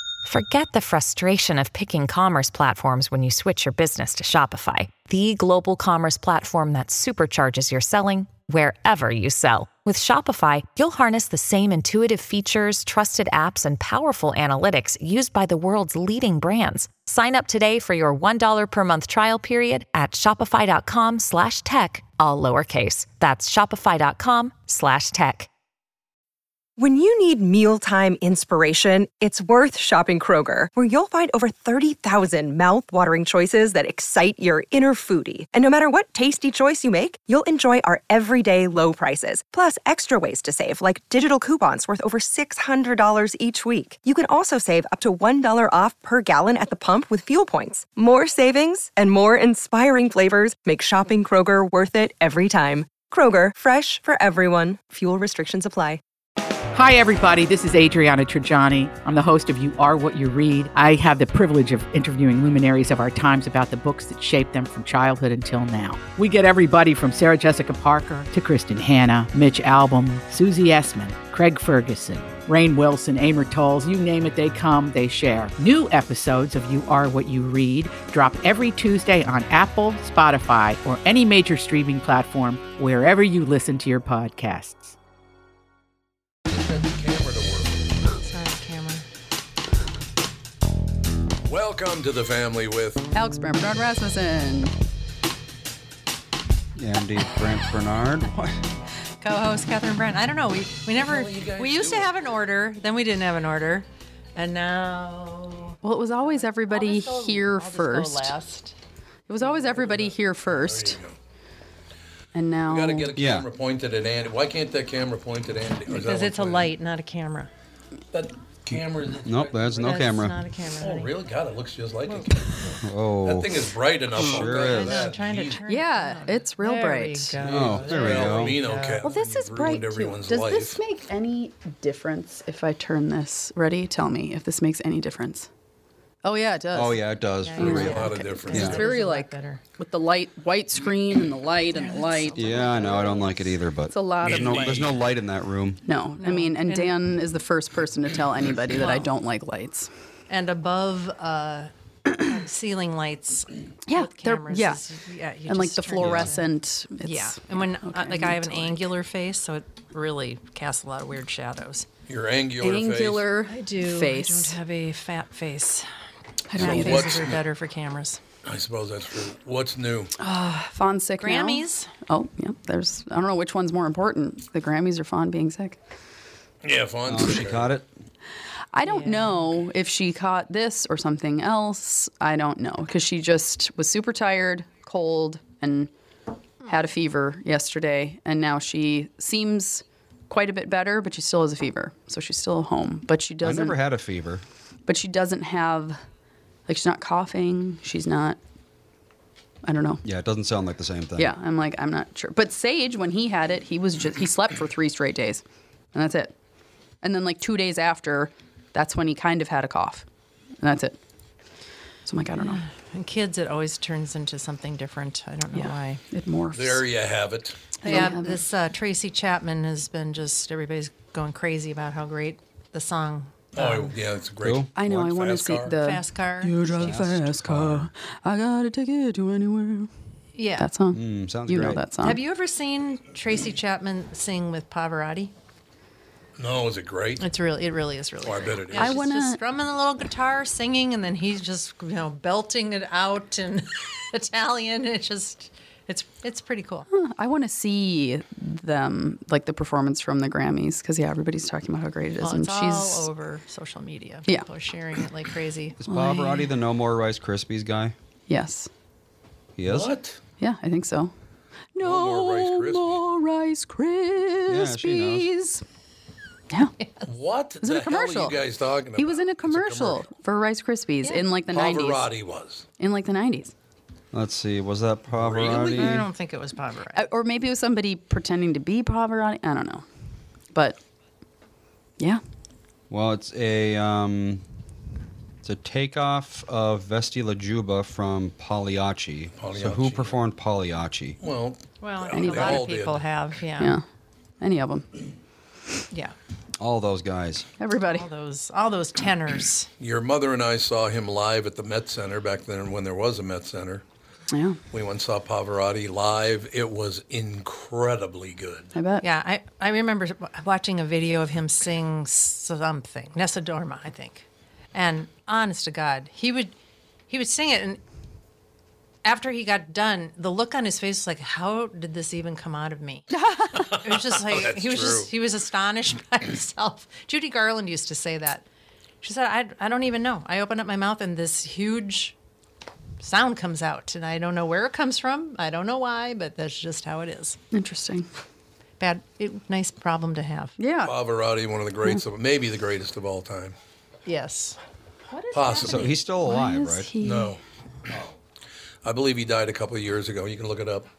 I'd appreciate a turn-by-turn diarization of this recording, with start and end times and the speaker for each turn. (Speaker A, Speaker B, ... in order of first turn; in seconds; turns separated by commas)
Speaker A: 0.2-25.5, Speaker B: 26.8-56.0, Speaker C: 56.7-84.9, Speaker D: 86.5-87.8, Speaker E: 88.1-89.0, Speaker D: 91.4-93.0, Speaker F: 93.1-94.7, Speaker G: 96.7-98.6, Speaker E: 99.2-108.8, Speaker D: 100.9-102.1, Speaker F: 105.8-108.3, Speaker F: 109.3-111.0, Speaker D: 109.7-111.2, Speaker F: 112.3-113.1, Speaker D: 112.7-116.7, Speaker G: 113.1-113.5, Speaker E: 115.9-117.5, Speaker D: 118.1-120.1, Speaker G: 119.2-120.4, Speaker E: 119.8-121.1, Speaker D: 120.8-125.6, Speaker E: 122.0-122.3, Speaker G: 122.8-125.1, Speaker E: 124.3-129.0, Speaker F: 125.6-127.3, Speaker D: 127.4-130.8, Speaker G: 127.5-128.6, Speaker F: 129.0-135.5, Speaker F: 136.2-137.0, Speaker G: 136.7-138.8, Speaker E: 137.4-139.6, Speaker F: 137.6-143.1, Speaker D: 137.6-138.8, Speaker E: 141.7-143.3, Speaker G: 142.3-145.8, Speaker F: 143.9-144.8, Speaker D: 144.2-144.9, Speaker F: 145.8-149.9, Speaker E: 146.2-146.9, Speaker E: 148.8-149.1, Speaker E: 150.3-156.4, Speaker F: 153.9-154.8, Speaker F: 155.5-158.8, Speaker G: 156.0-156.3, Speaker E: 157.0-161.8, Speaker D: 162.1-163.3, Speaker F: 162.6-164.6, Speaker E: 163.4-165.9, Speaker F: 166.5-167.2, Speaker D: 166.5-167.4, Speaker E: 166.6-168.2, Speaker D: 168.4-170.1, Speaker F: 170.2-175.8, Speaker E: 171.2-171.9, Speaker D: 176.6-177.7, Speaker G: 177.1-177.9, Speaker F: 178.7-185.9, Speaker E: 178.8-179.4, Speaker F: 186.7-193.8, Speaker G: 193.4-194.4, Speaker F: 194.8-196.0, Speaker F: 196.7-198.4, Speaker F: 199.6-200.0, Speaker G: 200.0-201.3, Speaker F: 201.2-205.4, Speaker F: 205.9-206.3, Speaker F: 207.0-210.1, Speaker F: 210.6-211.0, Speaker F: 212.0-212.6, Speaker E: 212.4-216.0, Speaker F: 215.5-216.8, Speaker D: 216.5-217.6, Speaker E: 217.8-223.9, Speaker F: 217.8-218.4, Speaker D: 223.5-225.8, Speaker G: 224.4-224.7, Speaker F: 224.7-229.9, Speaker E: 225.8-226.5, Speaker G: 226.8-227.9, Speaker E: 230.3-230.7, Speaker F: 230.6-232.2, Speaker G: 230.9-231.8, Speaker E: 232.0-235.3, Speaker D: 236.4-237.2, Speaker E: 237.2-246.9, Speaker D: 238.2-239.0, Speaker F: 238.7-239.4, Speaker F: 246.9-253.1, Speaker E: 252.2-255.8, Speaker G: 255.8-257.9, Speaker F: 255.9-256.5, Speaker F: 258.3-258.7, Speaker G: 259.6-259.9, Speaker D: 259.6-260.2, Speaker F: 260.4-261.1, Speaker F: 261.7-265.6, Speaker D: 261.8-263.0, Speaker G: 264.4-265.3, Speaker D: 267.1-270.0, Speaker F: 267.6-268.4, Speaker F: 269.0-272.1, Speaker D: 271.5-272.6, Speaker F: 272.8-273.5, Speaker G: 274.1-276.1, Speaker D: 275.1-275.9, Speaker E: 275.5-277.0, Speaker F: 276.9-279.8, Speaker F: 280.5-280.8, Speaker G: 282.9-284.4, Speaker G: 285.4-291.2, Speaker D: 289.4-290.2, Speaker D: 291.2-293.0, Speaker E: 291.8-293.8, Speaker F: 292.1-292.6, Speaker F: 293.6-293.8, Speaker F: 294.4-294.9, Speaker G: 296.6-297.5, Speaker F: 297.6-298.1, Speaker E: 297.9-299.7, Speaker D: 299.8-303.8, Speaker F: 304.3-304.6, Speaker D: 304.7-308.7, Speaker F: 308.7-309.0, Speaker E: 309.0-316.5, Speaker E: 317.1-317.8, Speaker E: 319.0-328.4, Speaker F: 323.1-323.7, Speaker D: 323.7-325.1, Speaker E: 329.0-332.1, Speaker E: 333.0-337.4, Speaker F: 337.5-338.1, Speaker E: 338.8-340.6, Speaker F: 340.6-340.9, Speaker D: 340.8-343.5, Speaker E: 344.1-344.6, Speaker E: 345.1-346.0, Speaker D: 345.3-346.0, Speaker G: 345.6-346.9, Speaker F: 346.2-347.4, Speaker D: 347.0-347.4, Speaker D: 348.8-350.9